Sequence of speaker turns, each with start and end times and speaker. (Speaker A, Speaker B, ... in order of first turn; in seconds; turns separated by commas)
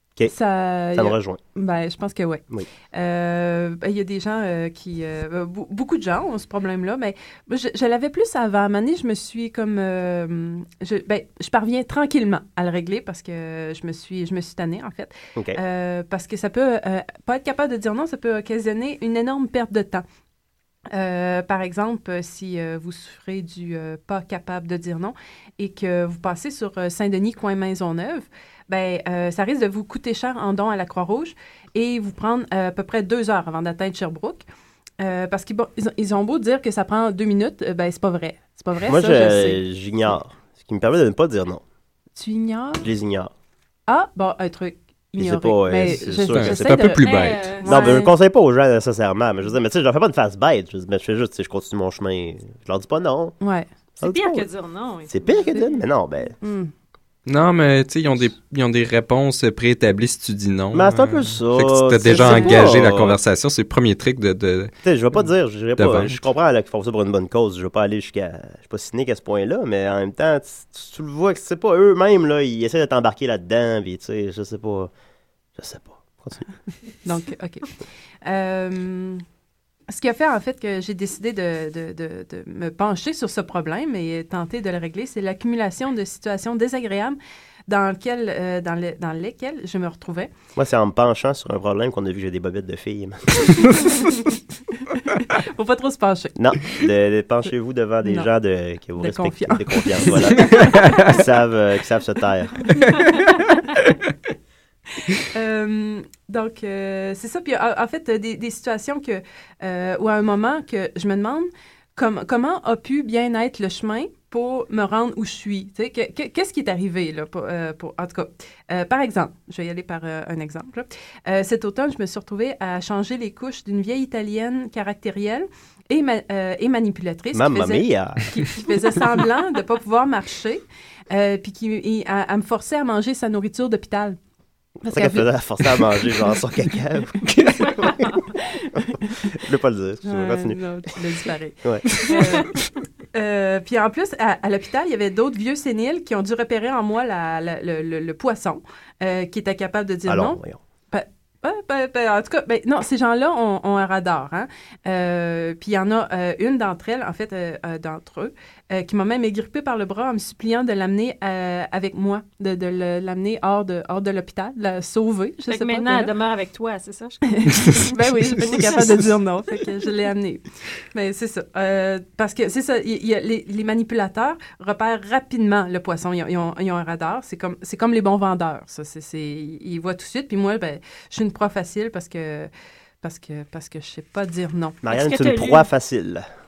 Speaker A: 0.3-20.0, Speaker B: 0.9-1.4, Speaker A: 20.9-34.4, Speaker A: 35.0-39.6, Speaker B: 38.9-41.6, Speaker A: 42.2-42.9, Speaker B: 42.8-43.3, Speaker A: 43.9-47.0, Speaker B: 45.2-47.0, Speaker C: 46.3-47.6, Speaker D: 47.0-47.9, Speaker A: 47.6-48.1, Speaker B: 47.6-53.3, Speaker A: 53.4-53.7, Speaker B: 54.0-54.5, Speaker D: 54.0-55.8, Speaker B: 55.1-56.4, Speaker A: 56.4-56.7, Speaker C: 57.3-64.7, Speaker B: 60.7-63.2, Speaker A: 62.1-62.7, Speaker B: 64.8-74.9, Speaker C: 65.8-66.2, Speaker B: 75.6-76.5, Speaker A: 77.0-77.7, Speaker A: 78.2-79.2, Speaker A: 79.9-90.3, Speaker B: 90.5-94.0, Speaker A: 94.9-96.3, Speaker B: 96.3-102.8, Speaker A: 98.0-98.3, Speaker A: 99.0-101.0, Speaker C: 100.5-101.0, Speaker A: 105.2-134.2, Speaker B: 127.3-128.3, Speaker A: 134.8-135.3, Speaker B: 134.9-138.1, Speaker C: 137.2-137.9, Speaker B: 139.3-140.6, Speaker A: 140.0-142.6, Speaker B: 141.6-142.0, Speaker A: 143.1-150.4, Speaker B: 150.1-150.6, Speaker A: 150.9-166.1, Speaker D: 165.5-167.9, Speaker A: 167.3-182.5, Speaker A: 183.0-184.8, Speaker B: 184.8-186.2, Speaker D: 184.9-185.7